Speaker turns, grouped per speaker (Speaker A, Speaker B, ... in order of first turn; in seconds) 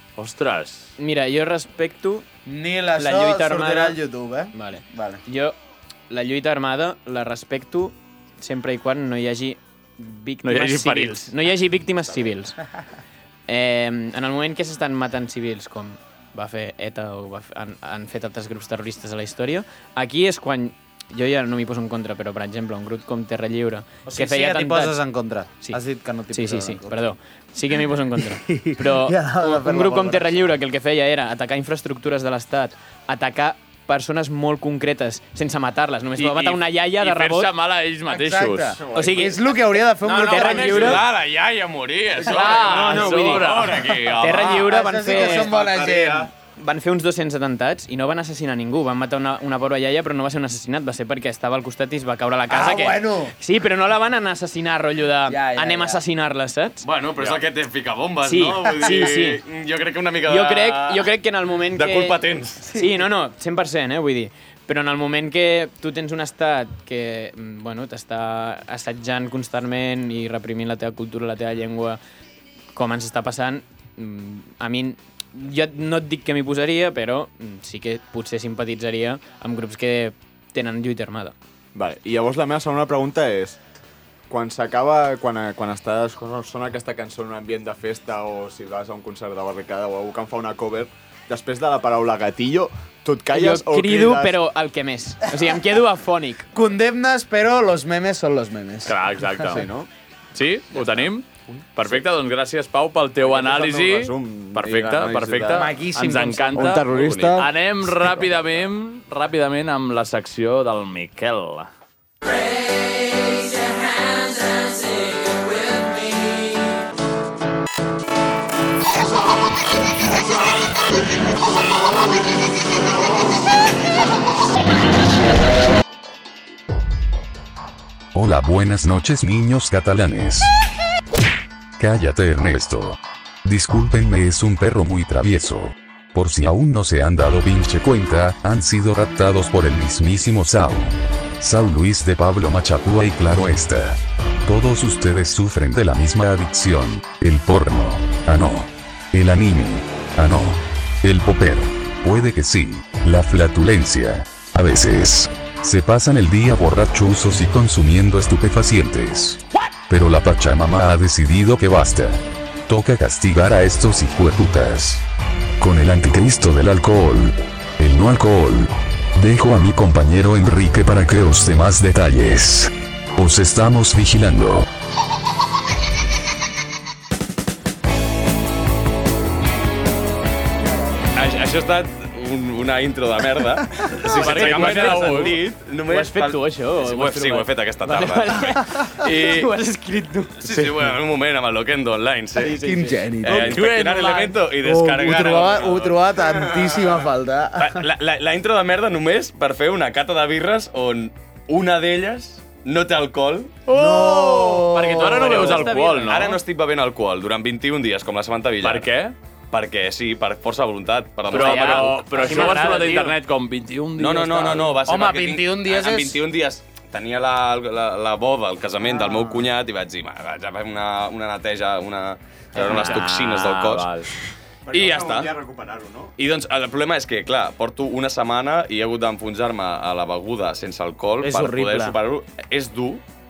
Speaker A: 0.2-0.9, 10.4-11.3, 36.1-38.8, 40.3-41.0, 42.2-44.1, 98.8-99.7, 100.3-111.7, 184.0-185.4, 193.2-194.4, 203.7-206.4, 208.6-209.1, 211.3-214.8, 222.6-224.1
Speaker B: 1.0-2.2, 3.0-4.0, 4.5-5.5, 6.1-12.6, 13.5-25.0, 26.3-37.5, 38.9-39.4, 40.0-41.0, 42.3-43.6, 44.2-45.5, 46.5-56.8, 58.2-59.4, 60.2-72.0, 72.7-81.3, 93.3-96.5, 184.1-190.4, 192.4-193.1, 205.0-206.4, 211.3-213.1, 222.5-223.1
Speaker C: 2.5-5.2, 24.1-27.1, 27.9-30.5, 38.1-41.0, 44.4-46.3, 52.5-53.3, 55.3-56.0, 62.6-63.1, 96.5-99.6, 105.5-107.5, 192.5-193.6, 194.6-197.9, 203.7-205.8, 212.0-213.1, 214.8-216.2, 218.9-219.5, 231.2-232.0
Speaker D: 38.8-39.3, 45.4-46.3, 81.7-83.6, 84.3-94.4, 99.5-99.9, 103.2-105.8, 106.5-107.5, 224.7-226.1
Speaker E: 40.4-46.0, 56.8-61.1, 61.7-62.6, 181.1-189.5, 190.4-192.6, 193.2-196.1, 197.6-203.6, 206.1-208.9, 209.5-212.3, 214.0-223.9, 224.7-225.3, 226.2-233.0
Speaker F: 128.1-130.5, 131.8-165.1, 165.6-174.7